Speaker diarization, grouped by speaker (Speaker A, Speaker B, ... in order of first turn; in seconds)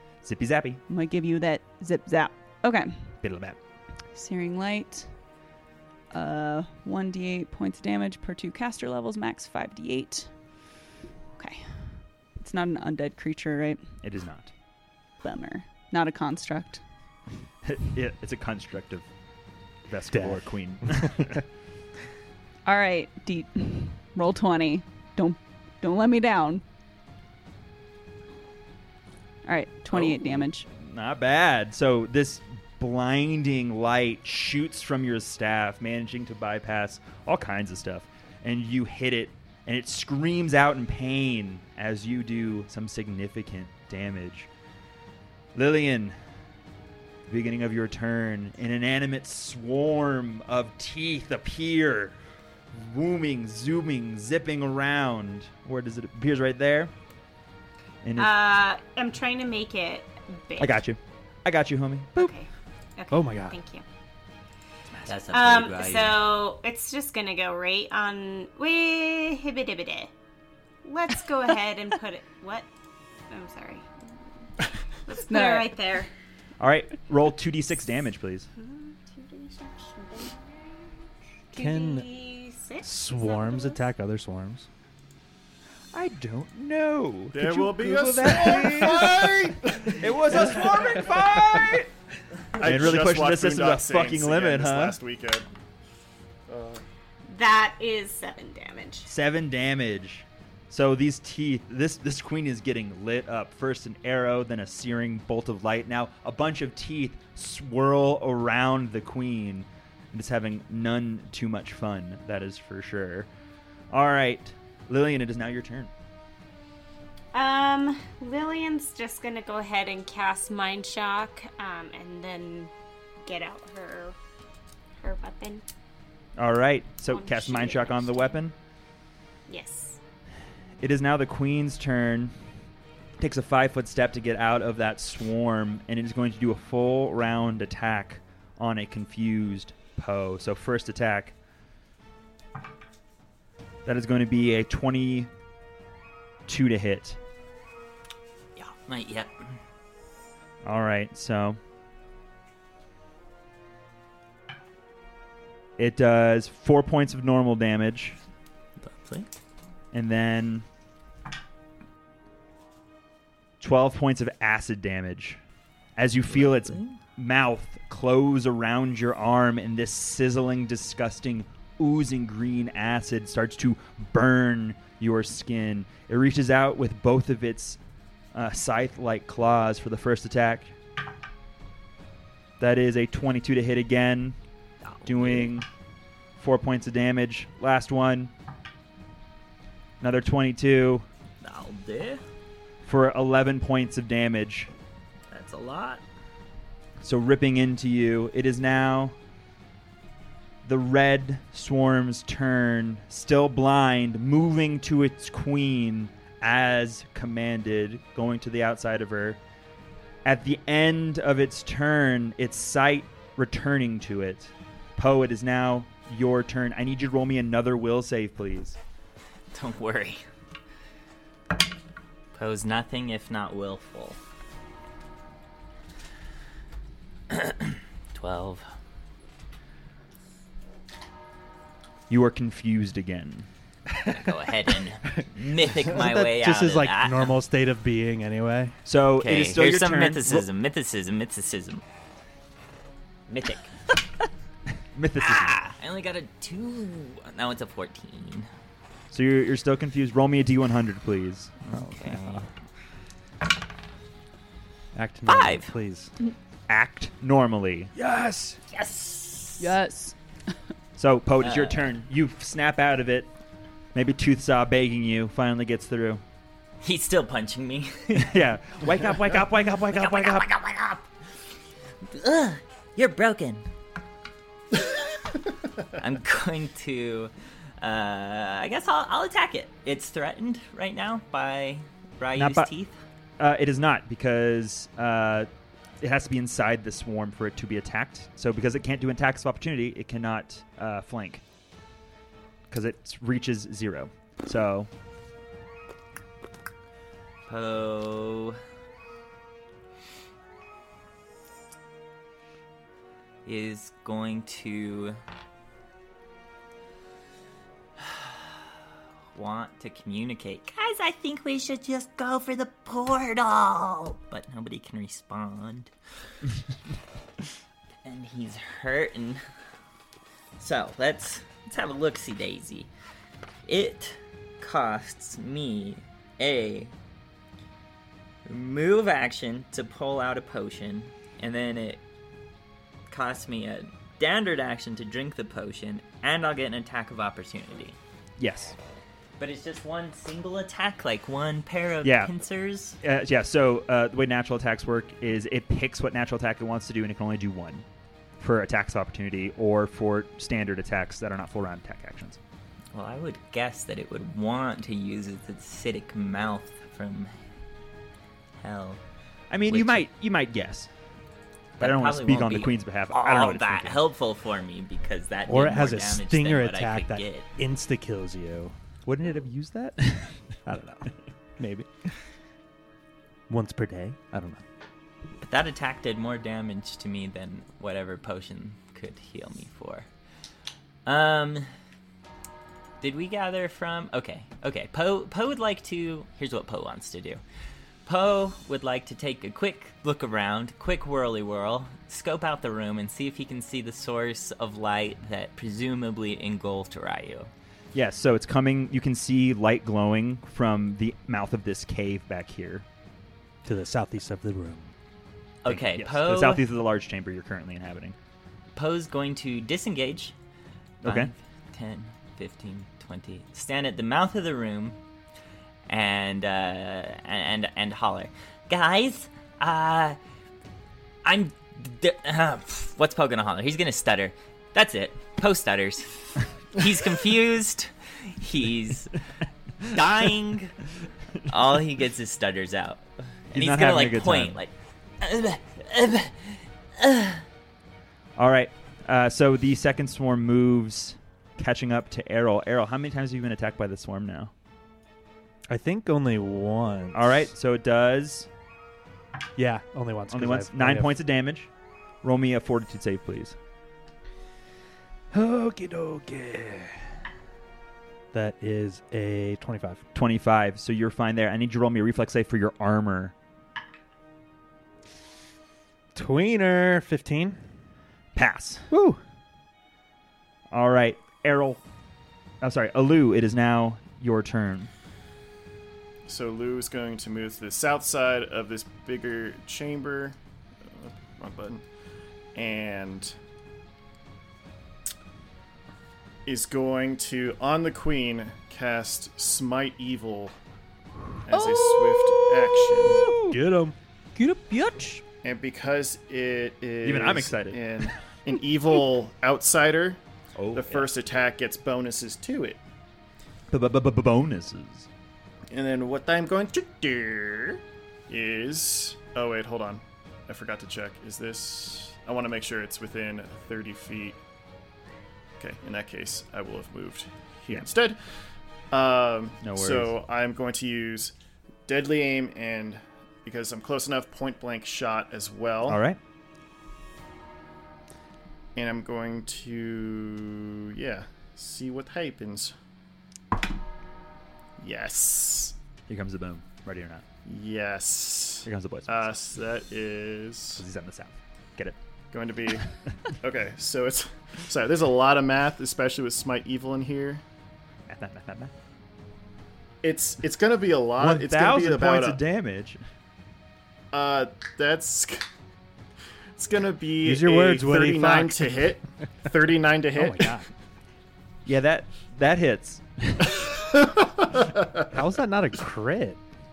Speaker A: 0.2-0.8, 3.2-3.6, 14.0-14.5, 17.6-19.1, 19.9-21.4, 29.9-44.5, 45.5-46.2, 47.3-52.2, 52.7-56.9, 58.0-58.3, 60.6-62.3, 76.6-78.5, 85.9-91.9, 92.6-95.0, 99.1-113.3, 113.9-115.9, 126.4-128.5, 130.8-132.3, 133.2-141.3, 143.8-145.3, 146.5-147.2, 150.6-151.6, 155.8-158.2, 159.9-160.7, 163.6-165.4, 165.9-177.8, 178.3-180.7, 182.6-184.4, 185.1-185.7, 186.4-188.3, 190.0-191.1, 192.8-194.7, 197.0-199.2, 200.6-209.4, 210.2-218.8, 232.1-233.5, 238.8-240.4, 244.9-245.6, 249.1-251.7, 256.7-257.9, 261.0-263.3, 263.9-266.2, 268.1-270.5, 282.4-282.7, 283.4-285.5, 286.0-291.4, 292.7-294.9, 338.4-338.8, 342.0-342.3, 343.0-347.8, 348.4-352.4, 359.5-360.9, 361.8-364.0, 369.0-370.6, 397.9-402.8, 405.7-408.1, 411.0-411.3, 433.5-434.6, 438.4-444.5, 447.1-448.5, 450.3-451.7, 452.2-453.6, 460.1-463.3, 468.3-468.9, 470.7-471.8, 472.6-474.9, 497.0-498.0, 500.6-501.1, 503.7-505.1, 519.6-520.1, 525.9-526.2, 536.1-537.2, 538.6-539.3, 540.8-542.0, 548.1-548.7, 551.2-553.0, 561.6-563.8
Speaker B: 0.9-3.2, 4.1-5.1, 6.1-10.3, 11.4-14.0, 15.2-16.8, 22.6-26.6, 29.4-30.6, 75.2-75.8, 259.6-260.1, 491.5-493.6, 494.4-495.2
Speaker C: 20.1-21.3, 63.1-63.6, 81.5-82.0, 82.8-84.7, 235.8-238.8, 251.7-252.5, 254.9-256.1, 257.9-258.6, 365.5-368.7, 370.6-372.2, 373.5-374.6, 403.6-404.9, 445.7-447.4, 449.6-451.1, 455.3-457.1, 458.3-460.0, 466.1-467.6, 468.9-469.2, 493.1-493.9, 557.2-558.9, 560.1-560.7, 565.1-566.4
Speaker D: 58.1-60.8, 62.2-63.8, 65.3-70.1, 70.8-72.7, 73.3-76.1, 78.5-81.0, 81.5-83.9, 97.3-99.1, 117.3-122.7, 123.2-124.2, 125.0-125.6, 127.1-128.3, 129.5-130.0
Speaker E: 64.9-66.2, 148.6-149.6, 158.8-159.3, 166.3-167.0, 184.8-185.5, 191.4-192.2, 195.3-196.0, 219.5-220.2, 222.3-224.2, 227.3-228.6, 234.0-237.3, 239.2-241.8, 243.3-243.7, 245.2-248.5, 251.7-252.4, 255.3-255.7, 258.7-259.7, 261.4-261.9, 266.8-268.3, 269.9-271.0, 272.1-273.6, 275.8-282.9, 297.5-298.6, 303.4-305.2, 308.0-308.4, 309.3-315.9, 318.0-319.4, 320.6-322.9, 323.6-326.9, 328.4-332.0, 333.1-338.0, 339.4-343.0, 352.9-357.3, 358.6-359.0, 359.7-360.0, 361.8-367.4, 375.4-380.1, 381.0-381.7, 383.0-387.4, 388.1-397.5, 405.6-406.6, 408.7-410.3, 411.0-415.0, 415.9-420.2, 421.2-429.2, 429.8-430.7, 431.4-437.4
Speaker F: 87.3-90.7, 92.5-95.5, 96.5-96.8, 476.2-481.8, 482.5-483.3, 486.4-490.5, 491.4-493.2, 495.4-500.2, 500.7-502.8, 505.7-514.4, 515.6-518.2, 518.9-521.3, 521.9-526.0, 528.7-532.7, 534.8-535.7, 537.5-540.8, 542.3-542.9, 543.4-547.4, 550.0-552.4, 554.1-555.4, 556.5-560.5, 563.7-565.1